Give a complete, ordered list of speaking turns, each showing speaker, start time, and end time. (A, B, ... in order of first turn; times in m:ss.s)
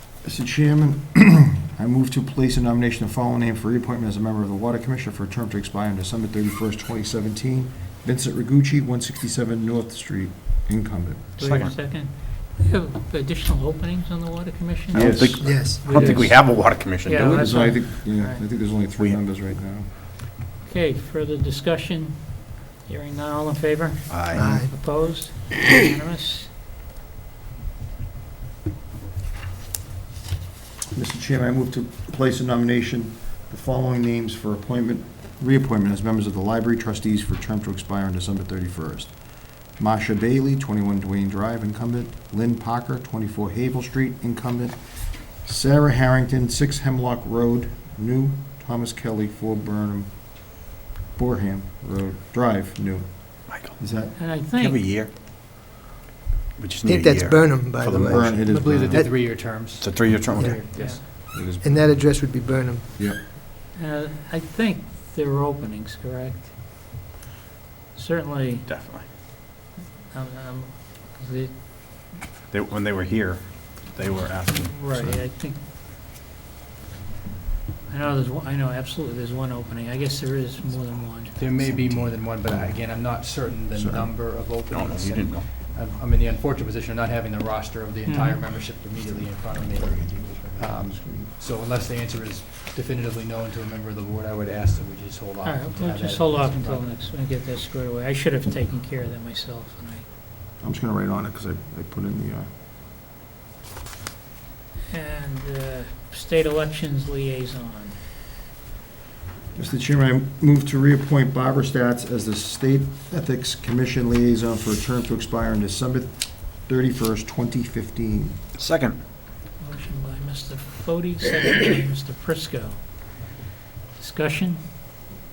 0:00.2-0:11.3 A
0:11.4-0:18.5 B
0:11.4-0:11.8 C
0:14.9-0:15.8 A
0:14.9-0:17.7 C
0:15.4-0:15.9 D
0:17.4-0:19.9 A
0:18.9-0:19.2 C
0:20.6-0:26.5 B
0:24.1-0:24.6 C
0:24.3-0:24.7 D
0:30.9-0:54.2 A
0:53.5-0:53.8 C
0:54.2-0:54.8 B
0:54.5-0:55.1 C
0:56.6-1:00.6 C
0:56.8-0:59.3 D
0:58.0-0:59.0 A
0:58.5-1:01.0 E
1:00.4-1:03.0 D
1:00.6-1:01.2 B
1:01.1-1:01.9 A
1:03.7-1:06.5 B
1:08.0-1:08.7 B
1:08.7-1:09.1 C
1:10.0-1:12.3 B
1:12.5-1:14.9 C
1:14.5-1:15.6 B
1:14.9-1:15.2 A
1:17.9-1:21.5 B
1:21.4-1:36.9 E
1:21.4-1:24.1 A
1:24.7-1:25.5 C
1:28.1-1:28.5 B
1:29.1-1:31.3 A
1:35.4-1:40.0 B
1:40.6-1:42.5 A
1:44.9-1:48.0 B
1:49.5-1:58.4 A
1:58.6-1:59.0 C
1:59.6-2:03.3 B
2:04.0-2:04.6 B